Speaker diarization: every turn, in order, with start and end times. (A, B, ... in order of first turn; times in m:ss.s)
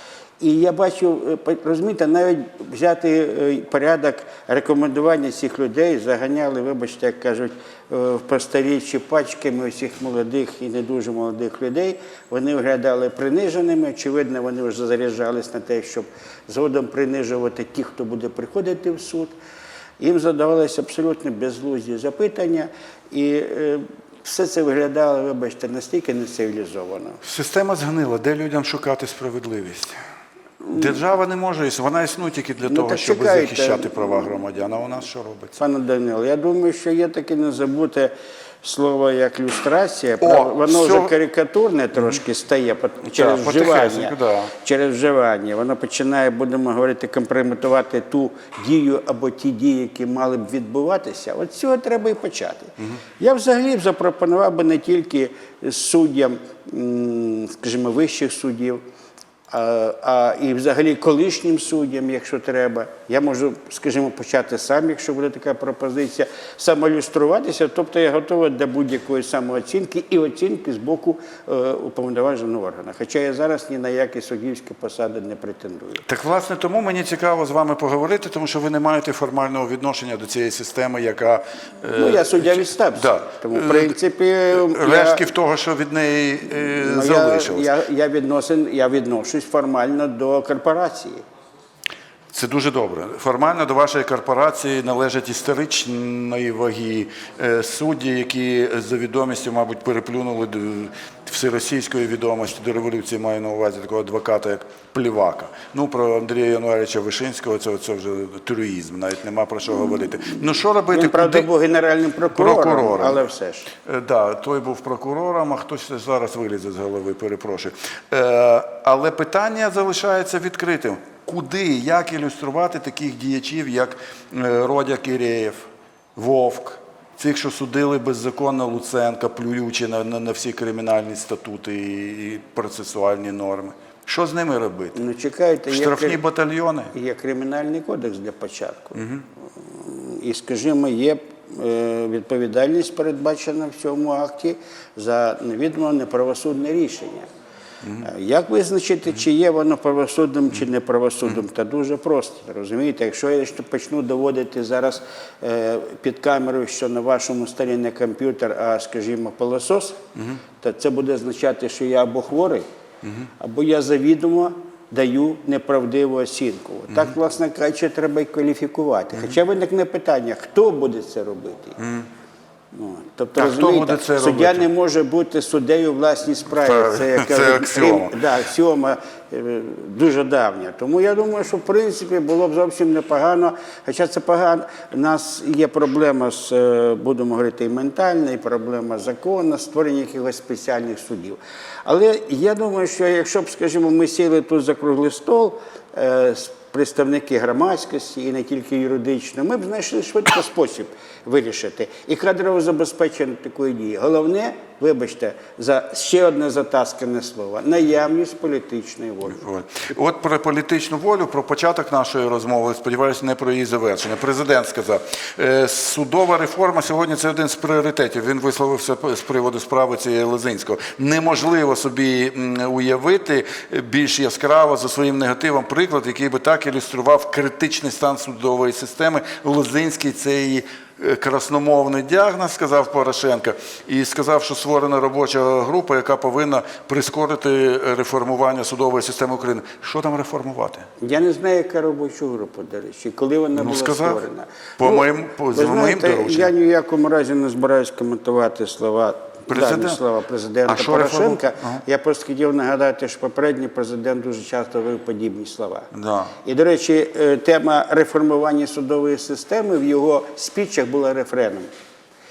0:00.4-0:19.3 A
0:20.0-0:27.2 A
0:27.2-0:30.0 B
0:30.7-0:35.6 B
0:32.7-0:34.2 A
0:35.6-0:38.1 A
0:38.6-0:58.8 A
0:40.2-0:41.1 B
0:43.1-0:44.5 B
0:59.5-1:16.0 A
1:16.1-1:24.0 B
1:22.0-1:25.3 A
1:24.5-1:27.7 B
1:26.8-1:31.2 A
1:32.3-1:51.5 B
1:50.9-1:53.7 A
1:52.4-1:53.2 B
1:53.8-2:15.0 B
2:15.0-2:16.2 A
2:15.7-2:16.9 B
2:16.9-2:19.0 A
2:19.0-2:19.2 B
2:19.6-2:27.3 A
2:28.0-2:40.0 A
2:40.6-2:42.6 A
2:43.4-2:51.8 A
2:51.8-2:52.1 B
2:52.7-3:29.4 A
2:53.4-2:54.7 B
2:56.6-2:58.1 B
3:29.4-4:00.9 B
4:01.0-4:15.9 A
4:03.6-4:04.2 B
4:04.8-4:06.5 B
4:09.5-4:10.0 B
4:10.7-4:11.8 B
4:15.9-4:16.3 B
4:16.4-4:21.7 A